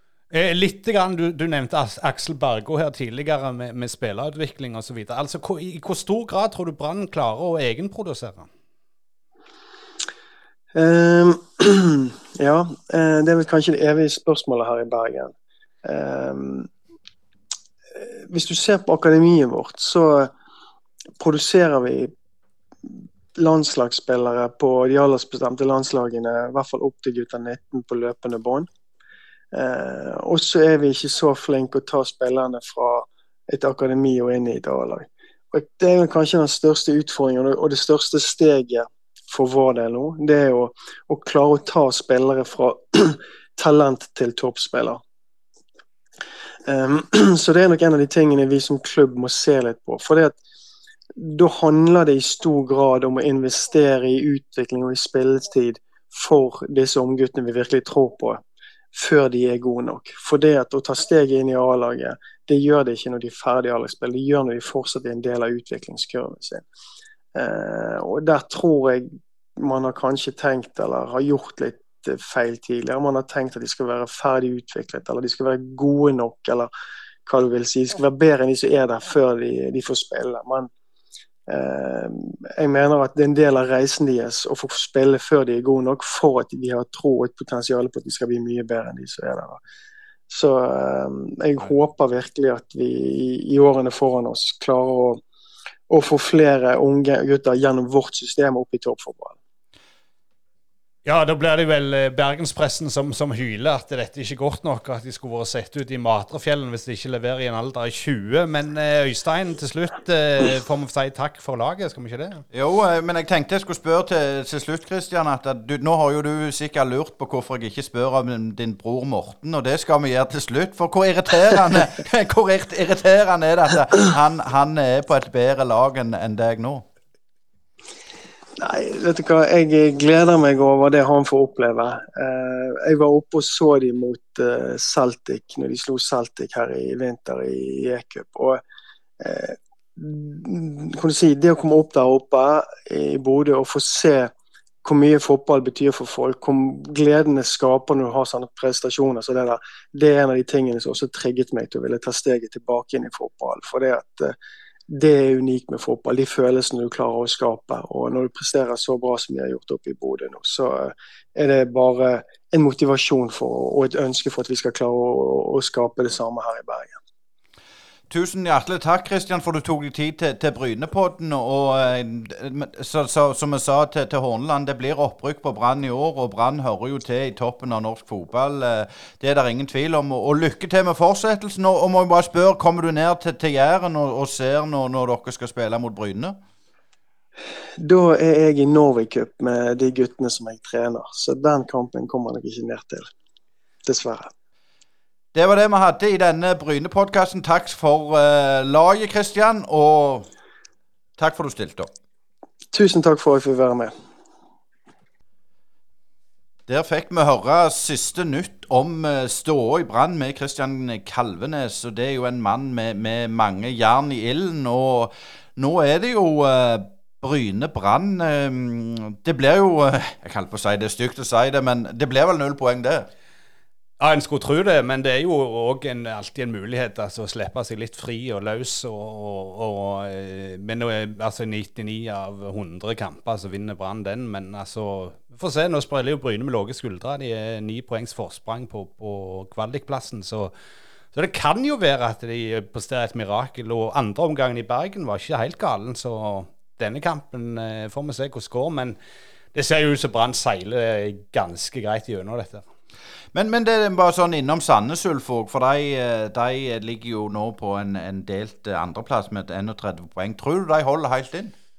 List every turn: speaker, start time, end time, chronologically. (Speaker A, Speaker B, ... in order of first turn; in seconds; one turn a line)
Speaker A: 0.3-8.5
Speaker B: 10.8-15.3
Speaker B: 15.8-16.7
Speaker B: 18.0-20.3
Speaker B: 21.2-22.1
Speaker B: 22.9-28.7
Speaker B: 29.5-45.0
Speaker B: 46.7-50.4
Speaker B: 51.2-58.4
Speaker B: 58.9-66.6
Speaker B: 67.3-76.7
Speaker B: 77.3-80.7
Speaker B: 81.5-89.6
Speaker B: 90.3-95.2
Speaker B: 95.9-99.4
Speaker A: 101.0-112.4
Speaker C: 112.5-126.9
Speaker B: 128.6-138.6
Speaker B: 139.2-144.3
Speaker B: 144.8-154.3
Speaker B: 154.9-166.9
Speaker C: 168.1-186.4
Speaker B: 187.8-193.1
Speaker B: 193.9-194.3
Speaker C: 195.3-200.3
Speaker C: 201.2-201.9
Speaker B: 202.7-203.9
Speaker C: 206.7-223.1
Speaker A: 224.0-240.5
Speaker A: 241.1-249.0
Speaker A: 249.5-252.6
Speaker C: 253.3-261.5